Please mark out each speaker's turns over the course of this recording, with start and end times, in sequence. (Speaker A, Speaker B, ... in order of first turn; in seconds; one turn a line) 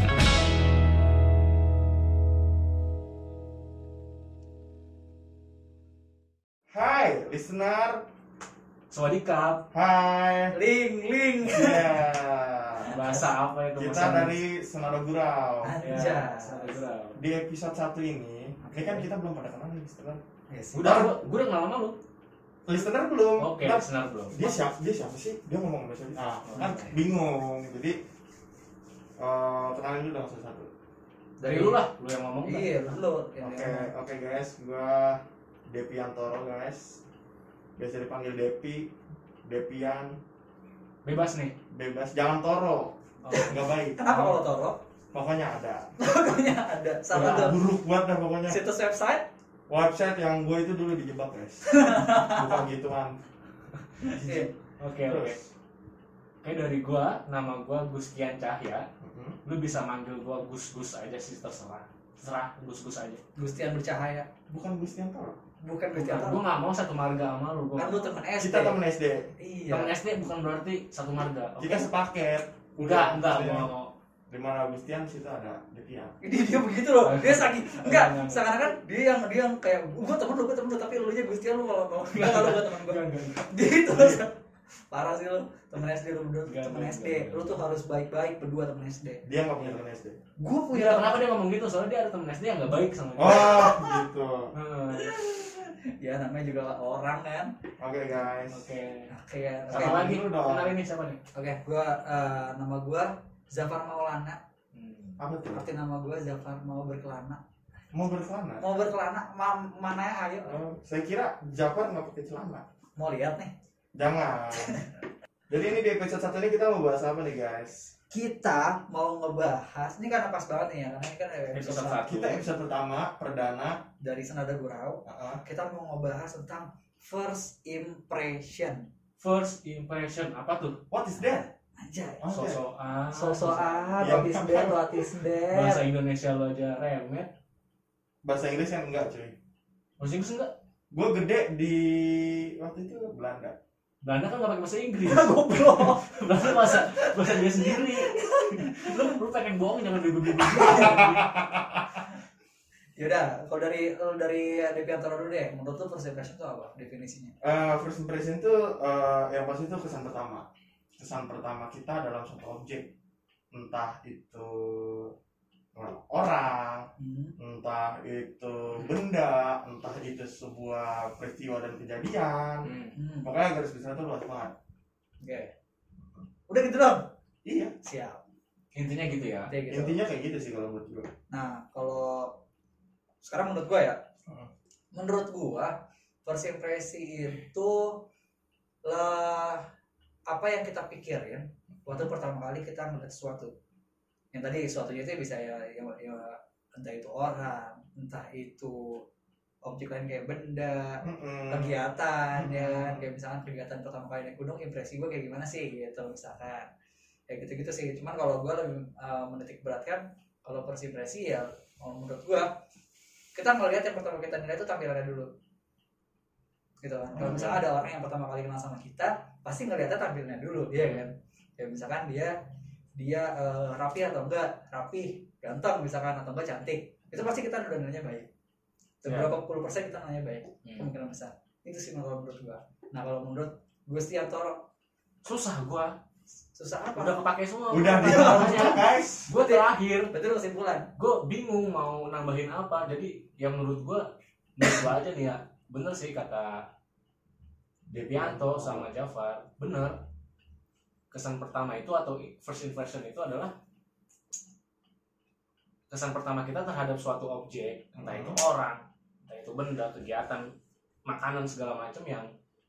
Speaker A: 6.7-8.0
Speaker B: 8.9-9.6
Speaker A: 9.7-10.6
Speaker C: 10.5-12.0
Speaker A: 11.4-13.0
Speaker C: 12.8-13.3
Speaker B: 12.9-14.4
Speaker A: 13.8-15.8
Speaker C: 15.6-16.8
Speaker B: 15.8-17.2
Speaker A: 17.1-20.2
Speaker C: 18.6-19.1
Speaker C: 20.5-21.1
Speaker B: 20.7-22.0
Speaker A: 20.8-21.2
Speaker A: 22.7-28.0
Speaker B: 23.4-24.4
Speaker B: 26.5-26.8
Speaker C: 26.6-27.0
Speaker A: 29.2-30.7
Speaker C: 31.4-31.8
Speaker B: 31.4-33.0
Speaker C: 32.5-33.9
Speaker A: 33.4-37.0
Speaker A: 37.8-38.9
Speaker A: 39.5-40.2
Speaker B: 41.0-41.5
Speaker A: 41.7-44.0
Speaker B: 43.2-44.4
Speaker C: 43.3-44.8
Speaker A: 45.1-45.9
Speaker C: 46.0-47.6
Speaker A: 47.1-48.6
Speaker B: 47.2-47.5
Speaker C: 48.5-49.2
Speaker A: 49.7-53.2
Speaker C: 51.7-52.6
Speaker A: 54.0-54.5
Speaker C: 54.0-54.5
Speaker B: 54.8-55.4
Speaker A: 55.1-55.4
Speaker B: 56.4-58.9
Speaker A: 59.0-59.4
Speaker B: 59.5-63.2
Speaker C: 63.4-64.3
Speaker A: 64.5-65.4
Speaker C: 65.6-66.4
Speaker B: 66.0-68.2
Speaker C: 67.8-68.8
Speaker A: 68.4-69.3
Speaker C: 69.4-69.9
Speaker B: 69.7-71.9
Speaker A: 71.6-73.7
Speaker B: 72.8-73.9
Speaker A: 74.3-76.2
Speaker C: 76.2-84.3
Speaker B: 77.0-78.7
Speaker B: 82.2-83.5
Speaker A: 83.9-84.2
Speaker C: 84.9-89.2
Speaker B: 86.5-87.6
Speaker A: 89.2-90.2
Speaker C: 90.4-91.2
Speaker B: 90.7-93.7
Speaker A: 93.2-94.5
Speaker C: 93.3-94.0
Speaker B: 94.5-95.2
Speaker C: 94.9-97.5
Speaker A: 97.8-98.7
Speaker B: 98.5-99.1
Speaker C: 99.1-100.2
Speaker A: 99.7-100.8
Speaker B: 99.7-101.2
Speaker C: 101.3-104.4
Speaker B: 104.7-105.2
Speaker A: 105.2-105.7
Speaker C: 105.5-107.4
Speaker A: 107.9-108.6
Speaker C: 108.6-110.6
Speaker A: 110.5-112.7
Speaker C: 113.0-113.5
Speaker A: 114.0-114.8
Speaker C: 114.6-114.9
Speaker A: 115.5-117.9
Speaker C: 118.1-122.1
Speaker B: 121.5-122.5
Speaker A: 122.1-123.8
Speaker C: 124.0-128.9
Speaker A: 125.0-125.4
Speaker B: 129.2-130.8
Speaker A: 130.9-131.5
Speaker C: 131.8-132.2
Speaker A: 132.2-132.6
Speaker B: 132.3-133.9
Speaker C: 133.1-135.8
Speaker A: 134.0-135.2
Speaker B: 135.5-137.3
Speaker A: 138.2-139.3
Speaker B: 140.0-140.5
Speaker A: 140.9-143.6
Speaker B: 144.0-151.3
Speaker C: 145.0-149.1
Speaker C: 150.5-151.0
Speaker A: 150.6-151.9
Speaker C: 153.0-157.3
Speaker A: 157.4-162.9
Speaker A: 163.5-165.1
Speaker A: 165.8-172.7
Speaker C: 167.0-167.3
Speaker B: 172.7-173.0
Speaker C: 172.9-173.3
Speaker A: 173.2-174.5
Speaker C: 175.2-175.5
Speaker C: 176.5-177.1
Speaker A: 177.4-177.7
Speaker C: 177.8-178.2
Speaker B: 178.7-179.5
Speaker C: 179.5-180.0
Speaker A: 179.7-181.1
Speaker C: 181.3-182.4
Speaker C: 183.2-184.0
Speaker C: 184.9-188.0
Speaker C: 188.8-189.7
Speaker C: 190.3-193.5
Speaker C: 194.3-199.0
Speaker C: 199.6-206.7
Speaker A: 201.0-201.8
Speaker A: 202.4-203.1
Speaker C: 207.3-212.5
Speaker C: 213.3-215.3
Speaker C: 216.8-222.4
Speaker B: 217.2-217.6
Speaker B: 220.8-221.0
Speaker C: 222.9-228.3
Speaker C: 229.0-234.6
Speaker B: 229.1-229.4
Speaker B: 230.6-230.9
Speaker B: 235.2-235.9
Speaker C: 236.6-237.2
Speaker B: 237.0-240.1
Speaker A: 237.7-239.3
Speaker C: 237.9-240.9
Speaker B: 241.0-246.7
Speaker A: 247.9-248.9
Speaker B: 247.9-250.0
Speaker B: 251.1-253.5
Speaker B: 255.9-260.5
Speaker A: 258.0-258.4
Speaker B: 261.1-262.3